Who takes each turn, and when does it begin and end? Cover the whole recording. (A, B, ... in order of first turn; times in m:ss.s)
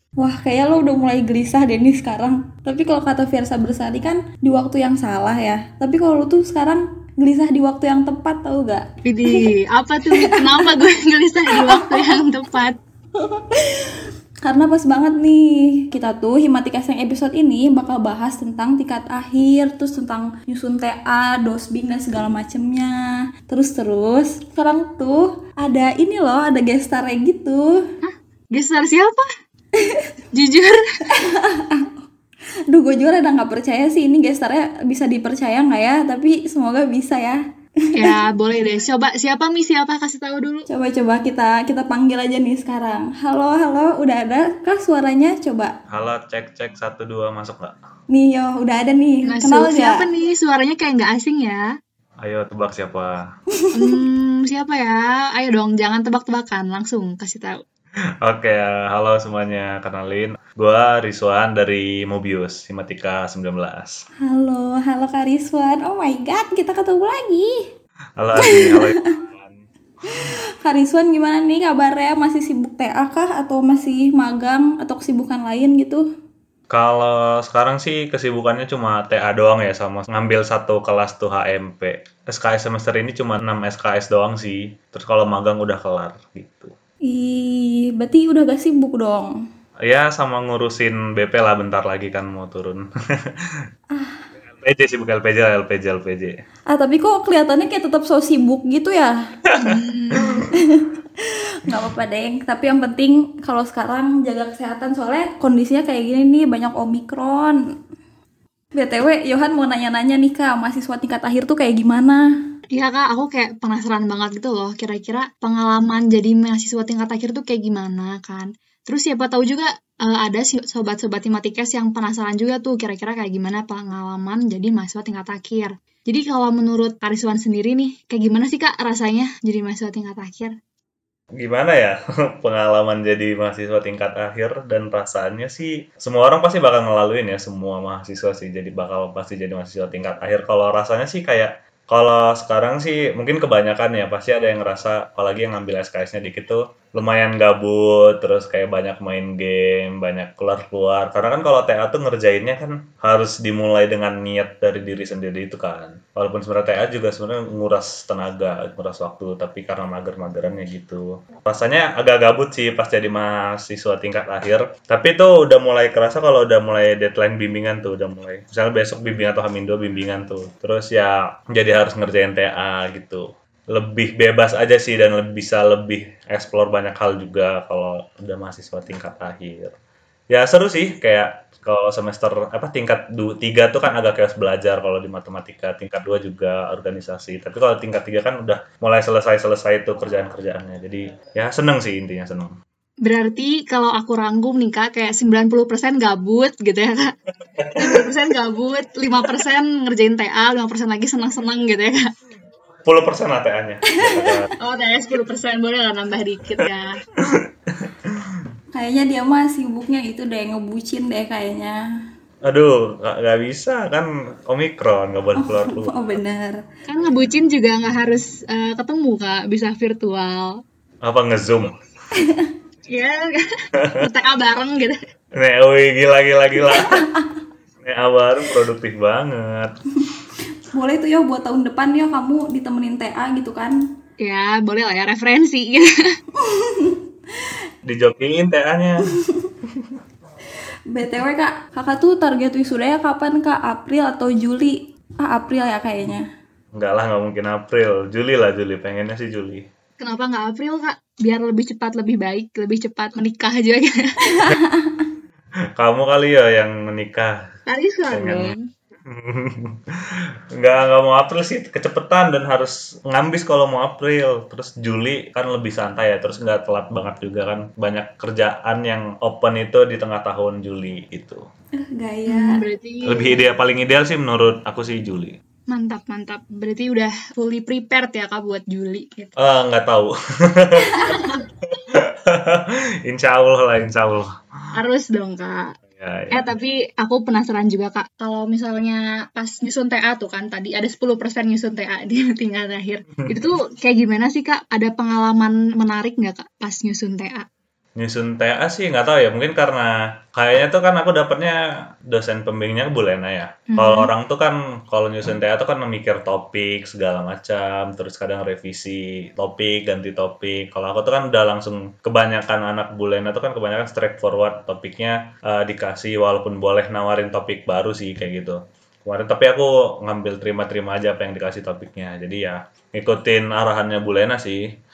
0:00.2-0:08.9 A
0:09.0-0:12.8 B
0:10.1-0:10.6 A
0:11.6-0:12.1 A
0:13.2-0:13.9 A
0:14.4-0:27.8 A
0:28.0-0:29.2 B
0:30.3-0:30.8 B
0:31.2-0:31.9 A
0:32.7-0:37.4 A
0:37.9-0:40.6 B
0:40.7-0:45.7 A
0:45.9-0:47.7 C
0:48.1-0:50.0 A
0:49.3-0:51.6 B
0:52.2-0:53.2 C
0:53.7-0:57.6 B
0:58.2-1:04.0 C
1:04.2-1:07.6 A
1:08.2-1:09.6 C
1:08.4-1:09.0 A
1:10.2-1:16.0 A
1:16.7-1:26.7 C
1:27.0-1:29.3 A
1:29.8-1:33.2 C
1:33.9-1:34.2 A
1:34.6-1:36.3 C
1:36.7-1:39.1 A
1:39.6-1:40.4 B
1:40.5-1:40.9 A
1:41.6-1:47.6 A
1:48.8-1:52.2 A
1:52.7-2:10.5 B
2:11.3-2:59.7 C
3:00.3-3:12.5 C
3:13.0-3:17.1 B
3:17.8-3:22.0 B
3:22.8-3:24.5 C
3:24.6-3:27.0 B
3:27.4-3:28.4 C
3:28.7-3:31.8 A
3:32.4-3:35.9 C
3:35.4-3:36.6 A
3:36.9-3:40.5 B
3:41.0-3:41.7 C
3:42.2-3:42.4 A
3:42.9-3:45.0 B
3:45.4-3:47.0 C
3:46.7-3:47.1 A
3:47.8-3:49.7 C
3:50.7-3:53.8 A
3:54.2-3:55.9 B
3:56.4-3:57.0 A
3:57.8-3:59.1 C
4:00.9-4:06.2 A
4:06.7-4:09.6 C
4:10.0-4:14.4 B
4:14.4-4:15.1 A
4:15.8-4:17.3 C
4:17.7-4:18.6 B
4:18.1-4:18.5 C
4:19.1-4:19.8 C
4:20.6-4:31.4 C
4:31.8-4:32.6 A
4:32.3-4:33.4 B
4:33.1-4:35.4 C
4:35.7-4:39.3 B
4:39.4-4:44.3 C
4:41.0-4:41.4 B
4:44.8-4:45.7 B
4:46.0-4:46.4 C
4:46.3-4:57.4 B
4:58.0-5:24.6 C
5:03.7-5:04.1 B